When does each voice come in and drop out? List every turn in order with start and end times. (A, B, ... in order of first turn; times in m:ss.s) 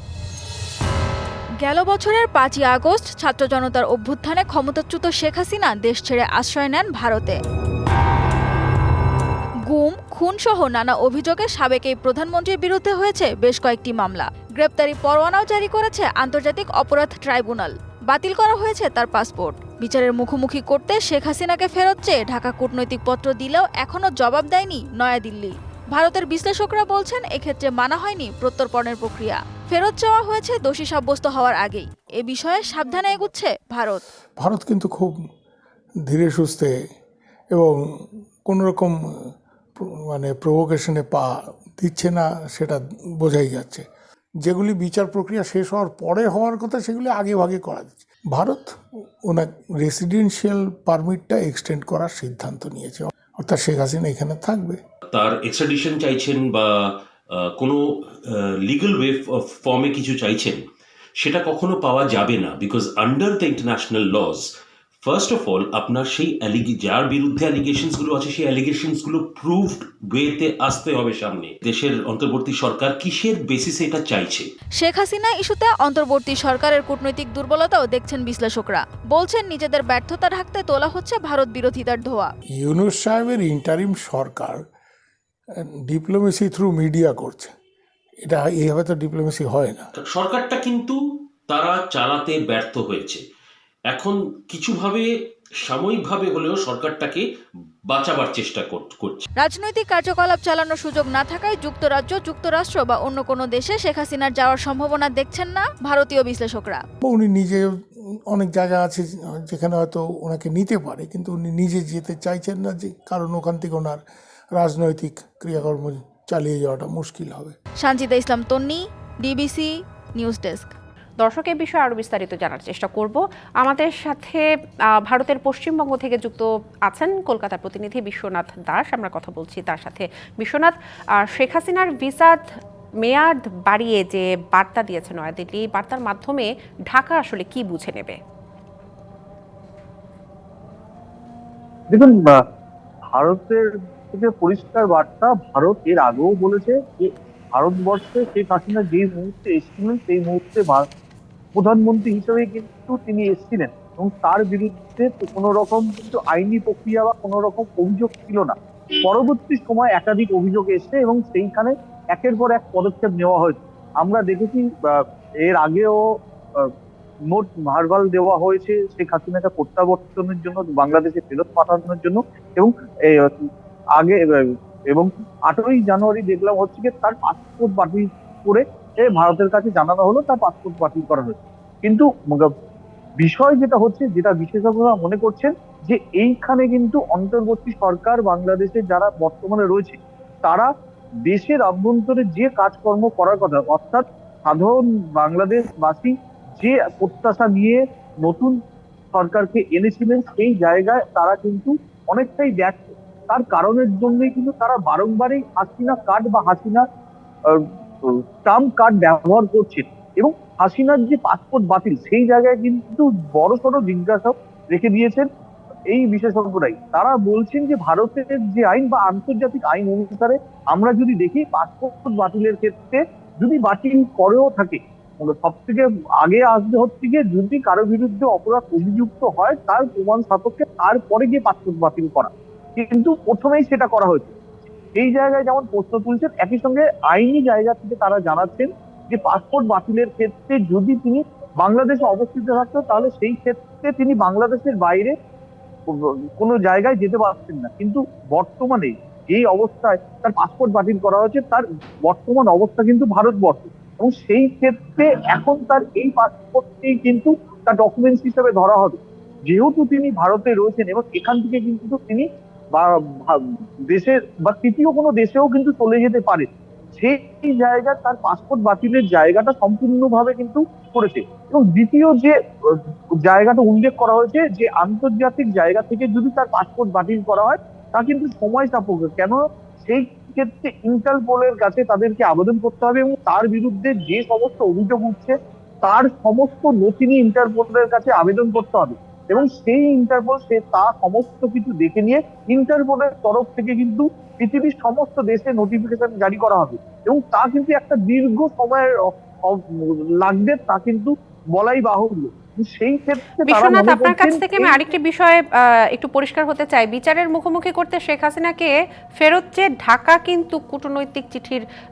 0:01.6-0:07.4 A
0:09.7-0:34.0 A
0:34.4-0:35.2 B
0:36.0-0:36.7 B
0:37.5-0:43.8 B
0:44.4-0:48.7 B
0:49.2-0:54.8 B
0:55.1-1:00.6 C
1:01.2-1:04.5 C
1:05.0-1:14.5 C
1:14.8-1:22.3 A
1:22.6-1:24.6 B
1:25.6-1:27.5 B
1:28.2-1:29.9 B
1:30.0-1:33.2 C
1:33.9-1:35.1 C
1:35.6-1:37.2 C
1:37.9-1:39.2 C
1:39.4-1:46.8 A
1:47.0-1:47.6 B
1:48.3-1:54.0 B
1:54.5-1:57.6 B
1:57.8-2:00.7 A
2:01.2-2:18.2 D
2:21.9-2:22.4 E
2:23.1-2:30.9 E
2:31.5-2:46.7 E
2:47.3-3:02.5 E
3:03.2-3:10.7 E
3:11.2-3:18.6 E
3:19.1-3:26.8 E
3:27.5-3:35.3 E
3:35.9-3:54.3 E
3:54.9-4:05.1 E
4:05.9-5:04.8 E
5:03.4-5:11.6 D